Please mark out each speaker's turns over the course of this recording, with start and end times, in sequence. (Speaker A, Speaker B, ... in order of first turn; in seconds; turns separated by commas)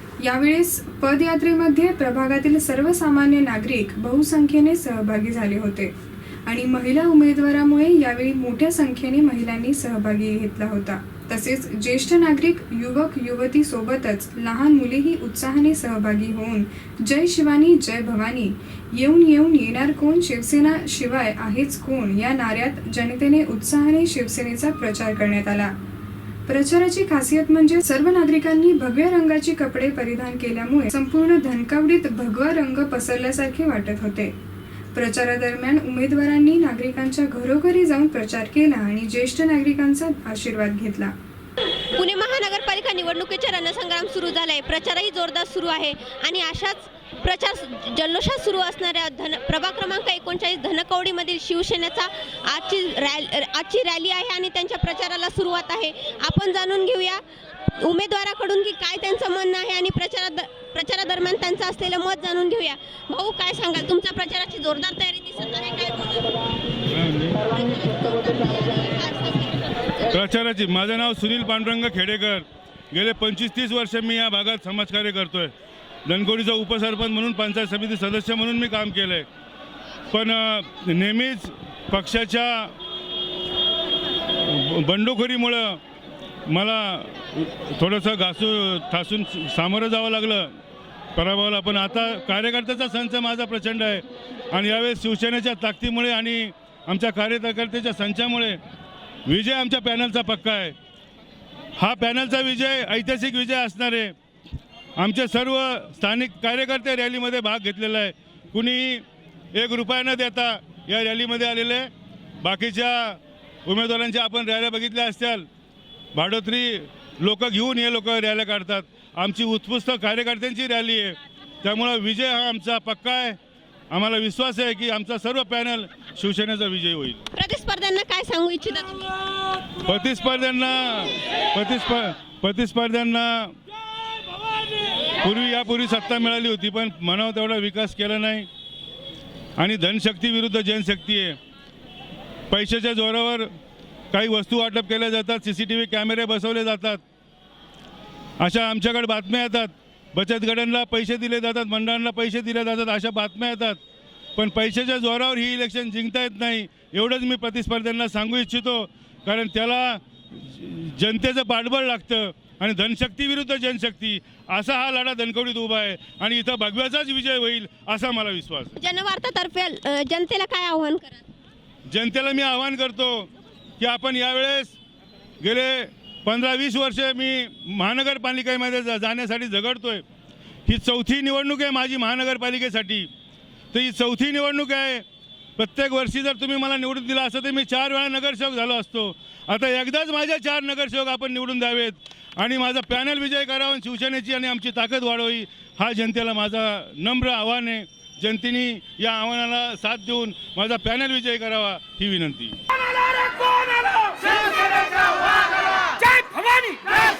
Speaker A: 0.2-5.9, Speaker A: 6.5-25.7, Speaker A: 26.5-34.3, Speaker A: 34.9-41.1, Speaker B: 42.0-57.2, Speaker B: 57.8-66.4, Speaker C: 66.9-67.4, Speaker B: 67.4-70.1, Speaker C: 70.1-75.5, Speaker C: 76.1-79.3, Speaker C: 80.1-82.8, Speaker C: 84.4-85.8, Speaker C: 86.5-90.5, Speaker C: 91.2-98.6, Speaker C: 99.3-100.8, Speaker C: 101.8-104.2, Speaker C: 105.0-115.5, Speaker C: 116.1-123.4, Speaker C: 123.9-127.2, Speaker B: 127.3-129.2, Speaker C: 129.8-133.6, Speaker C: 135.1-138.5, Speaker C: 139.6-141.4, Speaker C: 142.5-143.5, Speaker C: 144.1-147.0, Speaker C: 148.4-153.8, Speaker C: 154.4-168.8, Speaker B: 168.8-171.2, Speaker C: 171.9-174.8, Speaker C: 175.4-180.0, Speaker C: 180.7-183.1, Speaker C: 183.7-185.1, Speaker C: 185.6-202.6, Speaker C: 203.9-204.3, Speaker C: 206.5-206.8